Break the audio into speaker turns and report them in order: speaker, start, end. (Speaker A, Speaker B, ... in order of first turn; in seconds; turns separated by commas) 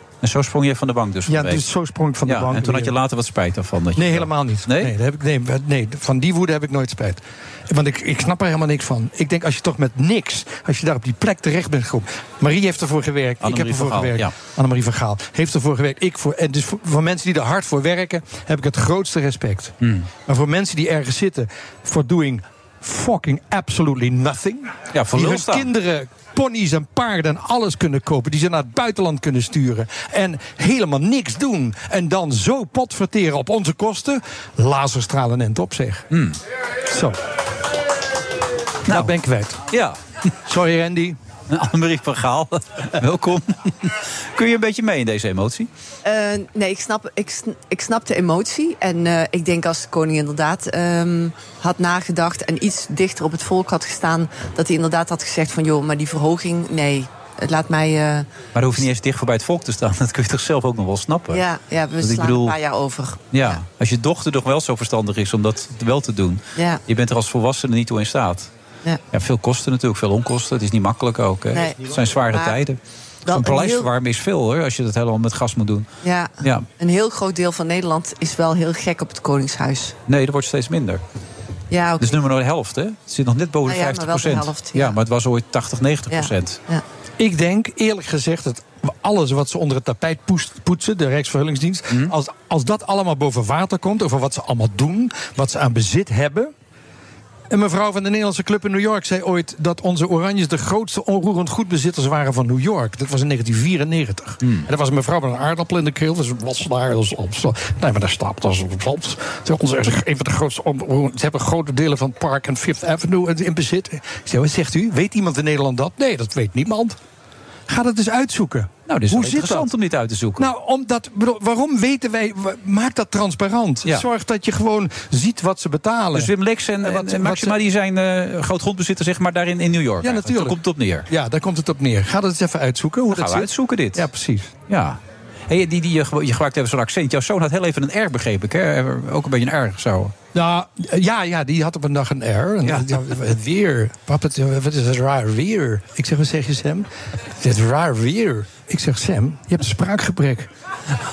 Speaker A: 0.2-1.6, Speaker B: 1.3-3.0, Speaker A: 2.2-4.9, Speaker B: 4.0-36.1, Speaker A: 13.4-14.3, Speaker A: 19.8-20.1, Speaker A: 24.9-25.7, Speaker A: 36.1-36.4, Speaker B: 36.9-37.2, Speaker A: 38.9-39.1, Speaker B: 38.9-39.6, Speaker A: 39.7-40.0, Speaker B: 40.5-41.2, Speaker A: 41.5-45.7, Speaker C: 46.0-58.3, Speaker A: 58.5-61.4, Speaker C: 61.3-63.6, Speaker A: 62.0-62.6, Speaker A: 63.3-68.5, Speaker C: 66.5-66.8, Speaker A: 69.1-75.9, Speaker C: 71.5-72.6, Speaker C: 73.2-73.9, Speaker C: 76.0-80.0, Speaker A: 76.4-76.7, Speaker A: 80.1-81.0, Speaker C: 81.7-82.2, Speaker A: 82.0-86.6, Speaker C: 83.6-85.0, Speaker C: 86.1-86.8, Speaker B: 87.2-96.5, Speaker B: 97.5-117.0, Speaker B: 117.7-119.7, Speaker A: 118.9-120.5, Speaker B: 120.4-127.6, Speaker A: 126.1-131.1, Speaker B: 130.0-134.5, Speaker A: 133.1-134.1, Speaker A: 134.7-140.1, Speaker B: 140.3-146.9, Speaker A: 142.6-143.1, Speaker B: 147.4-150.5